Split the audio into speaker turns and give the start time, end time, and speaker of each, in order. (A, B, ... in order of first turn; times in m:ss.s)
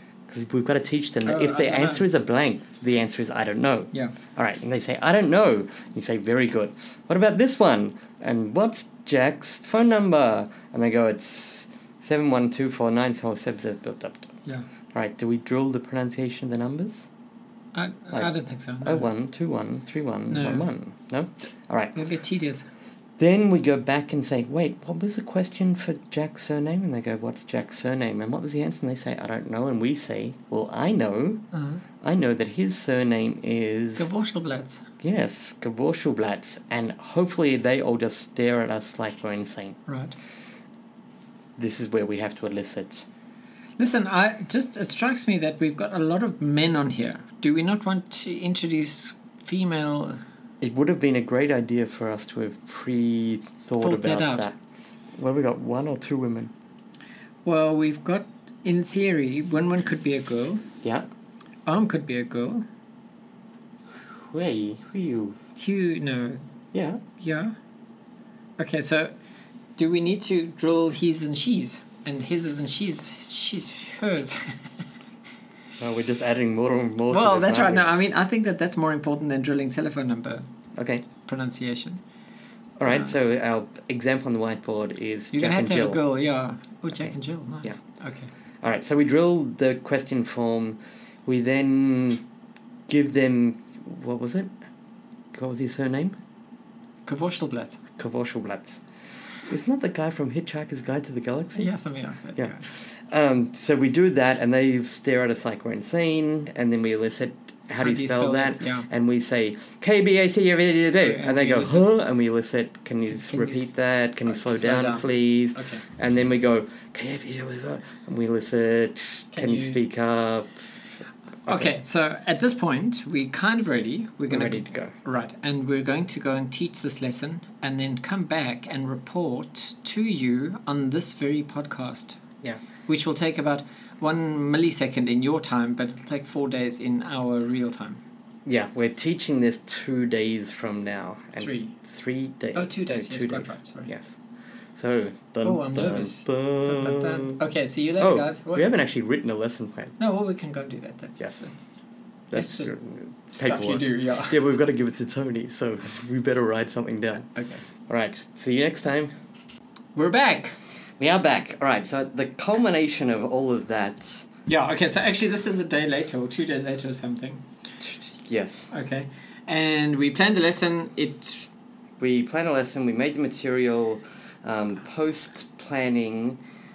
0:00.3-0:14.3 A
0:01.2-0:02.0 B
0:14.9-0:17.1 A
0:17.7-0:19.0 B
0:18.8-0:22.0 A
0:20.3-0:20.7 B
0:21.9-0:22.7 B
0:23.2-0:31.4 A
0:31.5-0:31.8 B
0:32.0-0:34.1 A
0:34.0-0:34.8 B
0:35.0-0:39.8 A
0:39.9-0:40.1 B
0:41.6-0:43.1 A
0:43.8-0:50.2 B
0:50.6-0:54.6 A
0:53.8-0:54.5 B
0:55.2-0:56.5 A
0:57.4-1:00.6 B
1:01.6-1:02.6 B
1:03.9-1:05.4 A
1:05.6-1:06.4 B
1:06.7-1:07.0 A
1:07.2-1:07.5 B
1:08.6-1:09.1 B
1:09.8-1:14.7 B
1:15.8-1:17.8 A
1:17.1-1:20.5 B
1:20.8-1:21.0 A
1:21.2-1:22.0 B
1:22.8-1:26.0 A
1:25.3-1:28.3 B
1:28.6-1:32.2 A
1:32.9-1:34.5 A
1:35.3-1:36.2 A
1:37.0-1:37.8 B
1:38.0-1:38.8 A
1:39.4-1:41.7 A
1:41.6-1:42.6 B
1:42.4-2:00.6 A
1:47.8-1:48.9 B
1:51.0-1:51.9 B
1:53.1-1:53.7 B
1:54.2-1:55.8 B
1:59.3-1:59.8 B
2:01.4-2:01.7 A
2:01.4-2:12.2 B
2:04.3-2:04.9 A
2:12.9-2:18.0 B
2:18.4-2:24.2 A
2:21.4-2:21.7 B
2:22.5-2:23.9 B
2:24.8-2:27.4 A
2:25.4-2:28.7 B
2:28.0-2:29.9 A
2:30.0-2:31.8 B
2:32.3-2:37.3 A
2:32.3-2:32.7 B
2:33.3-2:34.4 B
2:37.3-2:37.6 B
2:37.9-2:39.1 A
2:39.9-2:40.6 B
2:41.0-2:44.3 A
2:44.5-2:47.4 B
2:47.8-2:48.7 A
2:48.7-2:51.5 B
2:52.0-2:56.4 A